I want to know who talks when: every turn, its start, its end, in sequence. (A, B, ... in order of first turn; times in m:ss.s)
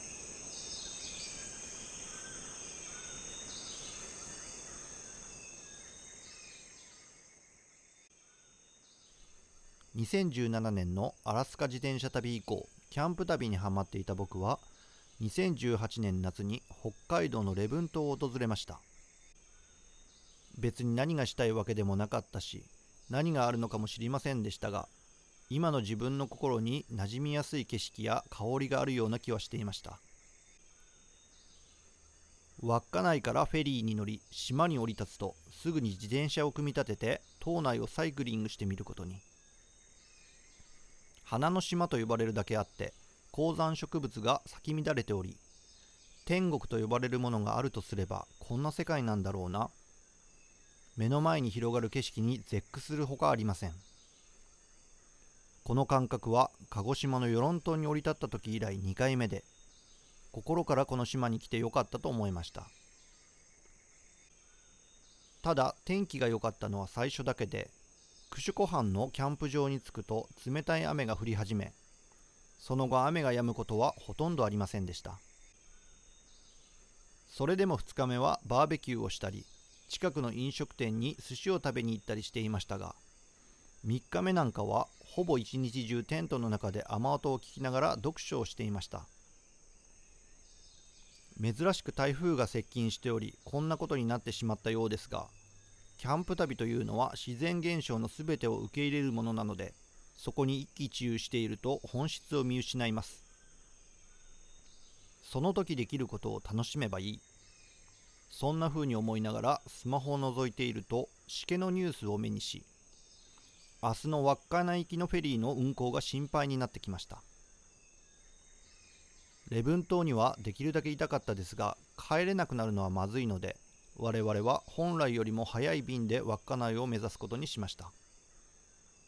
0:09.9-0:14.7 A
0:15.2-0:18.8 A
0:20.6-0:24.9 A
0:25.5-0:30.0 A
0:32.6-0:39.2 A
0:41.2-0:45.4 A
0:46.2-0:49.7 A
0:51.0-0:53.8 A
0:55.6-0:59.5 A
1:00.3-1:02.7 A
1:05.4-1:07.7 A
1:08.3-1:11.8 A
1:12.6-1:15.2 A
1:17.3-1:23.0 A
1:23.8-1:29.1 A
1:31.4-1:35.3 A
1:36.0-1:43.2 A
1:45.2-1:47.2 A
1:48.3-1:52.7 A
1:53.8-1:57.2 A
1:59.5-2:07.9 A